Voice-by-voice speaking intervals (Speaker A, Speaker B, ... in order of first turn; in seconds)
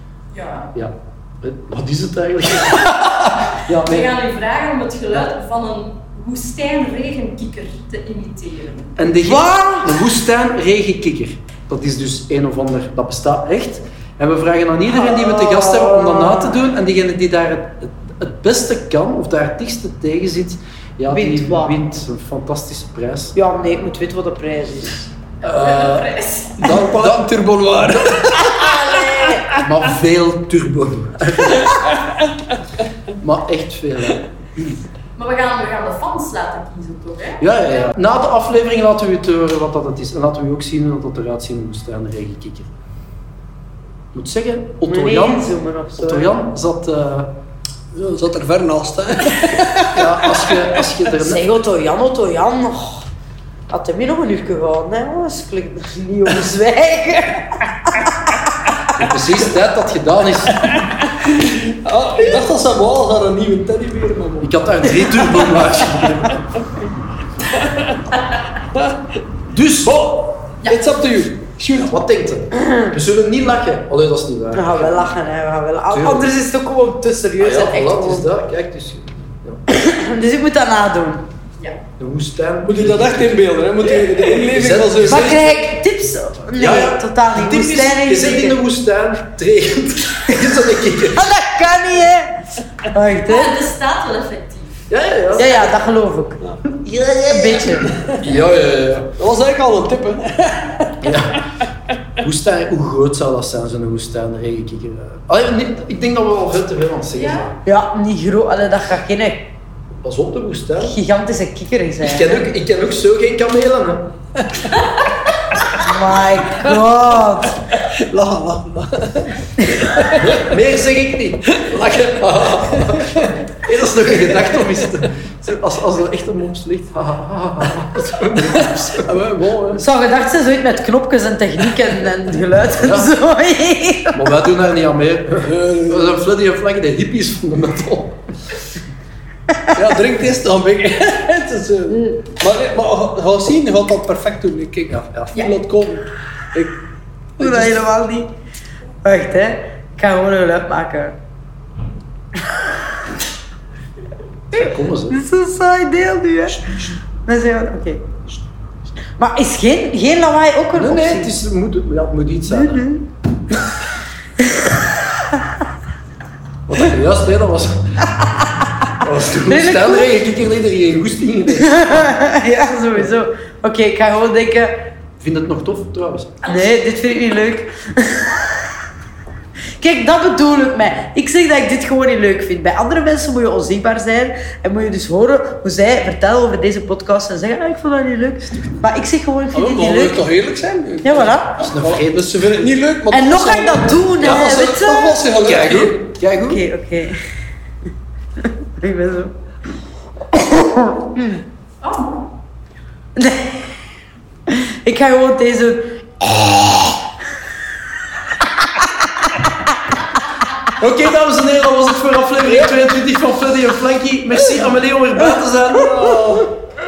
Speaker A: 0.3-0.7, 3.7-8.9, 25.4-26.7, 35.1-37.9, 93.3-94.8, 107.1-107.5, 201.8-202.2
Speaker B: 0.7-4.1, 9.0-23.4, 25.4-28.4, 29.5-31.7, 33.1-34.8, 37.4-42.7, 44.1-47.3, 49.9-51.4, 58.9-60.8, 64.4-66.6, 69.5-70.0, 71.7-75.1, 75.9-76.3, 77.4-79.6, 82.0-83.5, 84.3-85.7, 86.5-91.3, 94.9-95.5, 96.7-99.1, 101.0-101.4, 102.2-107.6, 110.0-111.0, 112.0-114.1, 120.2-129.2, 132.8-133.1, 134.1-138.2, 144.9-145.3, 154.5-155.2, 156.5-156.9, 160.7-162.9, 166.7-168.1, 168.9-172.2, 175.2-176.3, 188.6-188.8, 191.6-192.4, 195.4-196.6, 210.7-216.5
Speaker C: 9.2-9.9, 14.9-16.6, 21.1-21.8, 23.3-25.1, 28.5-29.5, 44.8-46.3, 51.2-53.1, 53.7-58.3, 72.5-72.9, 74.5-78.3, 79.7-81.2, 85.0-88.6, 91.1-93.6, 95.3-96.4, 97.2-97.9, 107.6-109.5, 110.8-112.5, 115.7-117.5, 129.8-134.3, 147.4-148.3, 149.0-151.2, 155.1-158.1, 159.2-161.3, 162.5-163.1, 164.4-164.7, 169.4-170.1, 171.6-174.9, 176.4-178.6, 179.8-190.3, 191.0-191.7, 193.1-195.3, 196.4-197.2, 198.4-199.3, 200.3-201.4, 203.2-203.8, 204.5-206.1
Speaker D: 26.6-29.6, 31.6-32.2, 47.9-50.6, 60.6-64.5, 65.2-66.1, 67.5-68.2, 68.7-69.1, 69.8-71.9, 82.6-85.4, 97.8-98.2, 99.2-101.2, 117.8-120.5, 121.6-123.3, 128.9-129.8, 135.4-136.2, 139.7-146.8, 147.4-147.8, 189.5-196.0, 215.9-216.3